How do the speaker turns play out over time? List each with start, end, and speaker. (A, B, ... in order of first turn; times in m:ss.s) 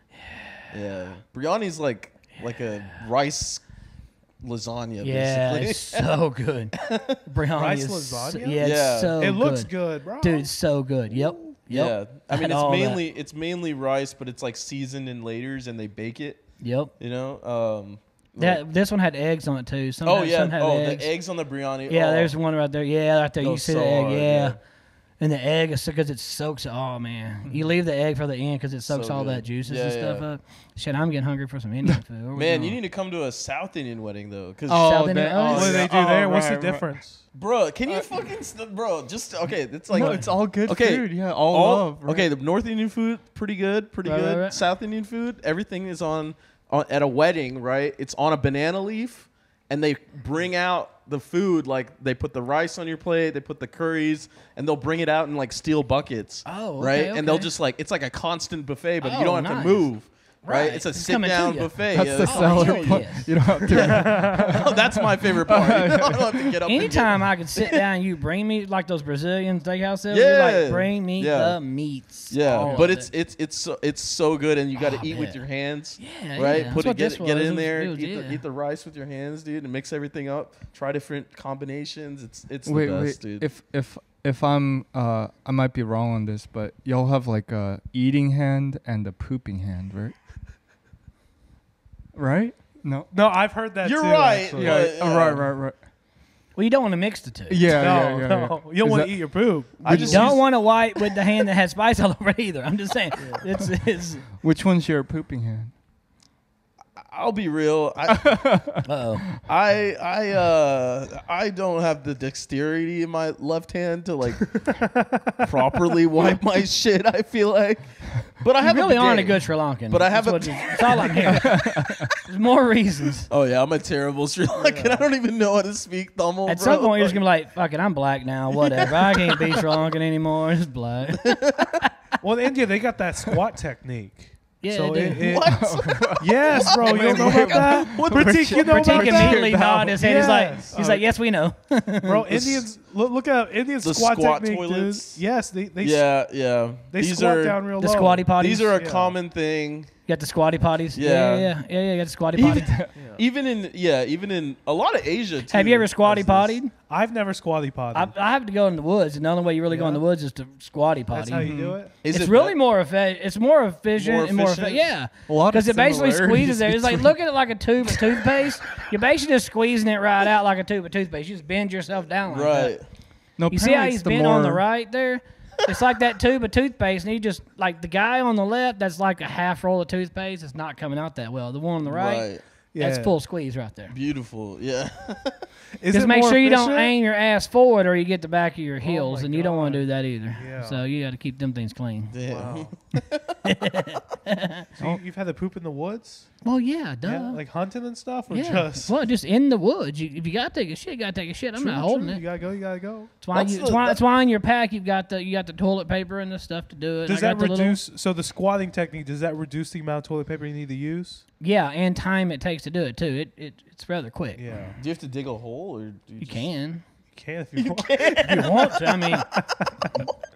0:00.2-0:00.5 A
0:00.7-0:03.6 B
0:04.4-0:06.0 B
0:05.0-0:06.8 A
0:06.8-0:07.2 B
0:07.3-0:13.0 A
0:07.6-0:10.5 C
0:08.6-0:09.2 B
0:11.1-0:11.6 C
0:11.7-0:16.4 B
0:16.6-0:16.9 A
0:17.0-0:18.6 B
0:18.4-0:21.1 A
0:20.0-0:22.3 B
0:21.9-0:24.6 A
0:23.4-0:24.6 B
0:25.2-0:32.8 A
0:27.5-0:27.7 D
0:28.9-0:30.3 B
0:32.4-0:36.4 B
0:34.7-0:37.0 D
0:34.8-0:35.8 A
0:35.5-0:37.2 C
0:37.3-1:07.8 B
0:39.9-0:42.3 D
0:40.0-0:40.2 A
0:44.0-0:44.6 A
0:56.5-0:57.5 A
0:59.0-0:59.9 A
1:00.4-1:03.3 A
1:01.9-1:06.6 D
1:03.7-1:04.6 C
1:06.7-1:13.1 A
1:10.1-1:11.6 B
1:12.3-1:23.5 B
1:14.8-1:15.4 A
1:16.0-1:18.4 A
1:22.7-1:30.2 D
1:32.1-1:33.1 D
1:33.1-1:34.9 C
1:33.8-1:35.4 B
1:34.6-1:35.8 D
1:36.6-1:37.7 A
1:37.5-1:40.4 D
1:37.8-1:40.4 C
1:39.8-1:40.4 B
1:39.9-1:44.2 A
1:43.2-1:43.4 C
1:44.4-1:45.7 D
1:47.0-1:48.5 B
1:48.1-1:48.8 D
1:48.8-1:49.2 A
1:49.5-1:54.8 B
1:54.8-1:55.2 C
1:55.4-2:01.5 B
1:58.6-2:03.3 A
2:01.3-2:02.0 D
2:03.3-2:07.2 B
2:04.6-2:05.1 C
2:06.5-2:11.4 A
2:08.5-2:09.6 B
2:11.2-2:11.8 B
2:12.2-2:15.6 C
2:14.6-2:15.3 A
2:15.2-2:18.5 B
2:15.5-2:20.7 D
2:16.2-2:21.1 C
2:18.5-2:22.3 A
2:22.0-2:26.2 C
2:22.3-2:22.7 B
2:23.8-2:25.2 B
2:25.8-2:27.7 B
2:26.9-2:29.2 C
2:27.8-2:28.8 A
2:28.4-2:29.9 B
2:30.1-2:32.7 A
2:31.0-2:31.5 B
2:32.4-2:36.6 B
2:32.4-2:32.9 D
2:33.0-2:33.2 C
2:35.5-2:36.7 A
2:36.8-2:38.1 C
2:37.9-2:41.5 A
2:39.7-2:40.0 C
2:41.1-2:41.9 C
2:41.3-2:41.8 D
2:42.0-2:42.6 B
2:42.0-2:52.8 A
2:44.0-2:44.9 B
2:45.3-2:46.0 D
2:45.7-2:47.1 B
2:52.3-2:52.8 B
2:53.4-2:54.6 D
2:53.5-3:03.9 A
3:01.8-3:02.4 B
3:02.7-3:03.1 C
3:03.9-3:05.5 B
3:05.8-3:06.9 C
3:05.9-3:12.1 A
3:08.8-3:10.8 C
3:12.1-3:13.4 B
3:12.3-3:12.7 C
3:13.4-3:15.0 A
3:14.8-3:16.3 C
3:16.4-3:17.4 A
3:17.0-3:18.9 C
3:18.3-3:22.2 A
3:21.6-3:23.1 C
3:23.2-3:27.8 A
3:23.3-3:24.0 B
3:27.1-3:31.2 C
3:31.4-3:34.4 A
3:34.4-3:34.8 C
3:34.8-3:36.5 B
3:36.2-3:36.8 A
3:37.2-3:38.9 C
3:37.6-3:38.7 B
3:38.2-3:39.3 A